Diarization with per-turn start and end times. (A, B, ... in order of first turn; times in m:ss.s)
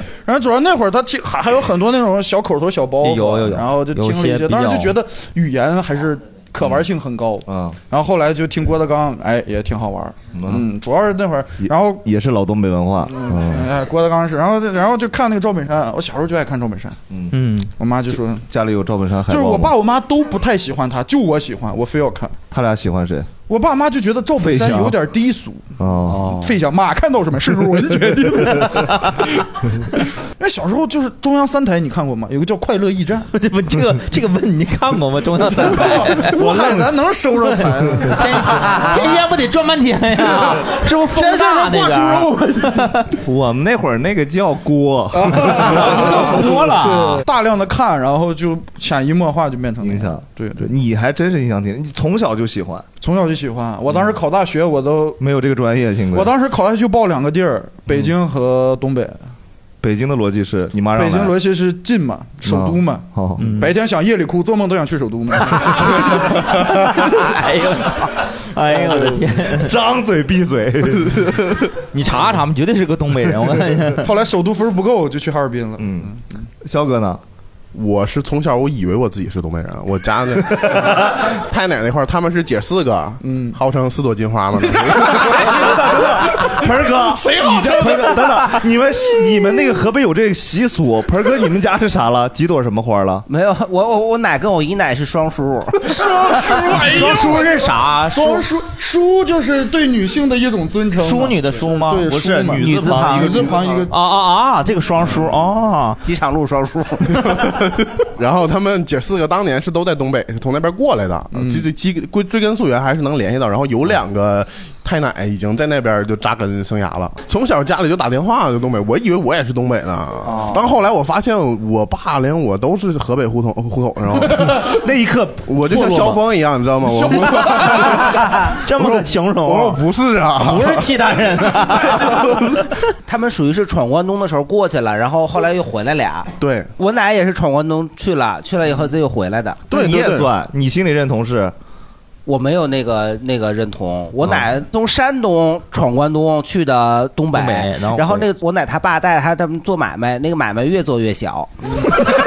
0:00.2-0:12.0 A
0:03.0-0:04.9 B
0:07.5-0:07.8 C
0:10.3-0:10.6 C
0:11.6-0:13.7 C
0:13.1-0:17.0 A
0:17.3-0:17.7 B
0:17.8-0:18.5 A
0:18.5-0:19.7 C
0:19.3-0:22.4 A
0:22.5-0:23.3 C
0:23.5-0:29.0 A
0:24.4-0:24.9 C
0:25.8-0:26.5 C
0:30.4-0:33.3 A
0:33.3-0:36.4 B
0:35.4-0:39.2 A
0:36.4-0:36.8 C
0:38.1-0:43.0 B
0:40.2-0:42.8 A
0:43.1-0:46.1 C
0:45.1-0:50.7 A
0:45.4-0:47.2 B
0:49.8-0:52.8 C
0:53.0-0:55.2 A
0:55.2-0:56.3 C
0:56.1-0:59.2 A
0:59.8-1:01.3 C
1:00.9-1:06.4 A
1:02.4-1:03.6 C
1:03.4-1:03.7 B
1:05.7-1:09.7 B
1:09.5-1:11.5 C
1:11.9-1:14.1 B
1:14.0-1:16.4 A
1:15.8-1:16.1 C
1:16.6-1:17.2 C
1:17.7-1:25.7 D
1:20.4-1:21.2 C
1:23.2-1:23.6 A
1:24.8-1:28.5 A
1:25.5-1:33.2 C
1:33.3-1:36.4 E
1:35.8-1:43.9 A
1:36.7-1:38.4 B
1:41.0-1:43.0 B
1:42.2-1:43.8 C
1:43.9-1:46.0 B
1:46.0-1:47.2 E
1:48.2-2:04.5 D
1:51.3-1:51.6 A
2:04.4-2:04.7 A
2:04.8-2:06.2 C
2:05.5-2:10.8 D
2:06.9-2:08.0 A
2:08.0-2:09.8 B
2:10.4-2:12.4 B
2:11.7-2:12.2 D
2:13.1-2:19.6 E
2:16.4-2:16.7 D
2:19.7-2:20.3 D
2:19.7-2:21.5 C
2:22.2-2:31.5 E
2:27.3-2:28.2 B
2:31.7-2:32.0 A